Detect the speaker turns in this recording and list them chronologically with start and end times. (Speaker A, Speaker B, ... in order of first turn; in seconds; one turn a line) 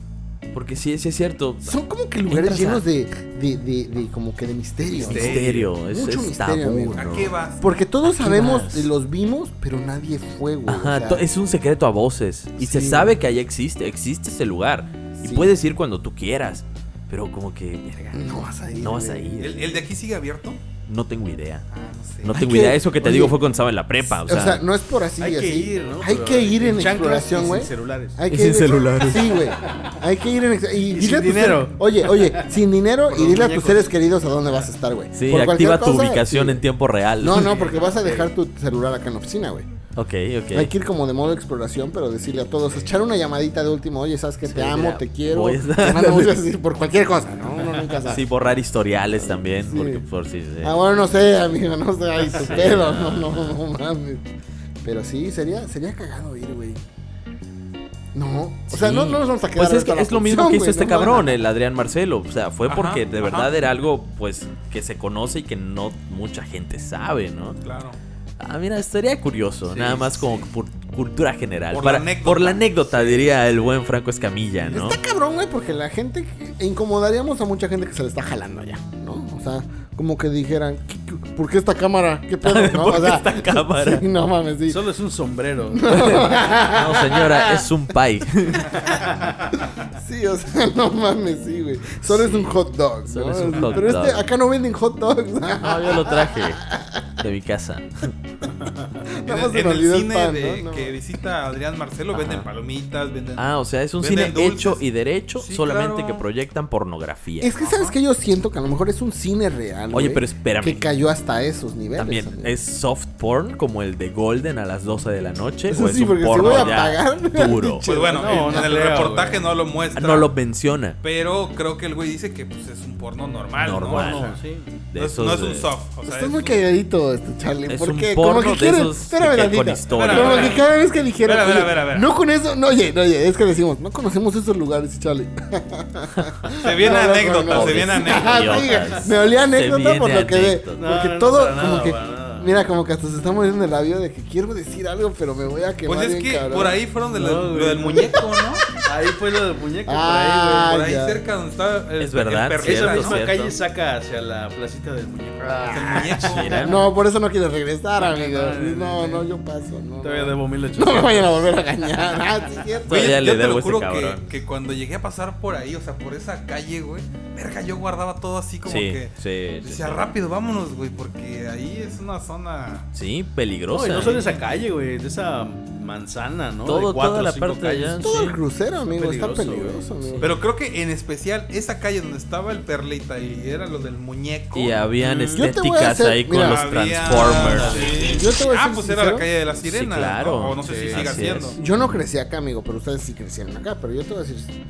Speaker A: 0.5-1.8
Speaker B: 1.6-11.2
Speaker A: 2.3-2.8
Speaker A: 5.0-7.3
Speaker C: 5.0-5.7
Speaker D: 5.1-5.6
Speaker D: 7.0-7.7
Speaker A: 8.0-8.9
Speaker A: 10.7-18.2
Speaker B: 12.6-13.2
Speaker B: 15.2-15.5
Speaker B: 18.1-19.4
Speaker A: 18.8-19.6
Speaker D: 19.4-20.6
Speaker A: 20.9-21.6
Speaker D: 21.7-22.3
Speaker A: 22.2-24.6
Speaker B: 22.3-23.4
Speaker B: 24.0-36.6
Speaker C: 25.2-28.2
Speaker A: 28.3-29.3
Speaker C: 30.9-32.4
Speaker C: 33.1-33.9
Speaker A: 35.1-37.5
Speaker B: 37.2-39.7
Speaker C: 37.3-38.3
Speaker A: 40.0-40.7
Speaker B: 40.5-48.2
Speaker A: 44.5-46.4
Speaker C: 47.8-48.1
Speaker A: 48.1-50.8
Speaker B: 49.2-50.0
Speaker B: 50.6-54.3
Speaker A: 52.4-53.6
Speaker B: 54.8-56.8
Speaker B: 58.1-61.4
Speaker A: 58.7-67.6
Speaker D: 62.6-63.5
Speaker D: 67.6-68.0
Speaker A: 68.4-75.0
Speaker C: 69.7-70.5
Speaker D: 71.7-73.1
Speaker B: 74.6-84.9
Speaker A: 82.4-84.0
Speaker C: 84.7-86.3
Speaker B: 85.7-87.7
Speaker A: 85.9-88.7
Speaker C: 88.8-89.5
Speaker B: 89.9-97.0
Speaker A: 92.1-92.5
Speaker A: 93.0-94.2
Speaker A: 95.6-96.7
Speaker A: 97.2-98.1
Speaker B: 99.1-101.0
Speaker D: 99.2-104.8
Speaker A: 102.1-102.5
Speaker A: 103.4-107.5
Speaker D: 105.4-106.2
Speaker B: 107.4-112.5
Speaker D: 107.5-108.0
Speaker A: 109.9-110.8
Speaker A: 112.0-117.8
Speaker B: 115.7-118.9
Speaker D: 116.4-116.8
Speaker D: 117.8-120.3
Speaker C: 118.1-119.5
Speaker A: 119.9-121.0
Speaker D: 121.0-124.4
Speaker A: 123.6-124.4
Speaker C: 123.9-124.7
Speaker A: 124.9-125.7
Speaker D: 124.9-126.6
Speaker B: 126.0-146.8
Speaker A: 127.7-130.6
Speaker D: 129.9-130.6
Speaker D: 131.2-132.1
Speaker D: 136.6-138.6
Speaker A: 137.5-140.8
Speaker C: 140.8-142.5
Speaker D: 145.8-148.6
Speaker C: 147.1-148.2
Speaker C: 148.8-150.8
Speaker B: 149.8-151.2
Speaker D: 150.6-153.2
Speaker A: 152.0-153.6
Speaker C: 152.6-156.7
Speaker B: 155.4-163.2
Speaker D: 155.7-156.6
Speaker A: 156.2-156.8
Speaker C: 158.0-159.2
Speaker C: 160.0-162.1
Speaker A: 162.9-164.2
Speaker D: 162.9-172.9
Speaker A: 168.6-170.1
Speaker A: 172.9-174.2
Speaker C: 173.7-178.2
Speaker D: 174.0-174.3
Speaker A: 176.7-178.4
Speaker B: 178.0-180.3
Speaker C: 178.8-180.2
Speaker D: 180.2-184.8
Speaker A: 184.5-187.9
Speaker C: 185.0-185.4
Speaker B: 185.3-186.8
Speaker D: 186.4-191.6
Speaker C: 187.1-188.2
Speaker B: 188.0-189.3
Speaker A: 189.6-191.6
Speaker C: 190.6-191.2
Speaker B: 191.6-194.5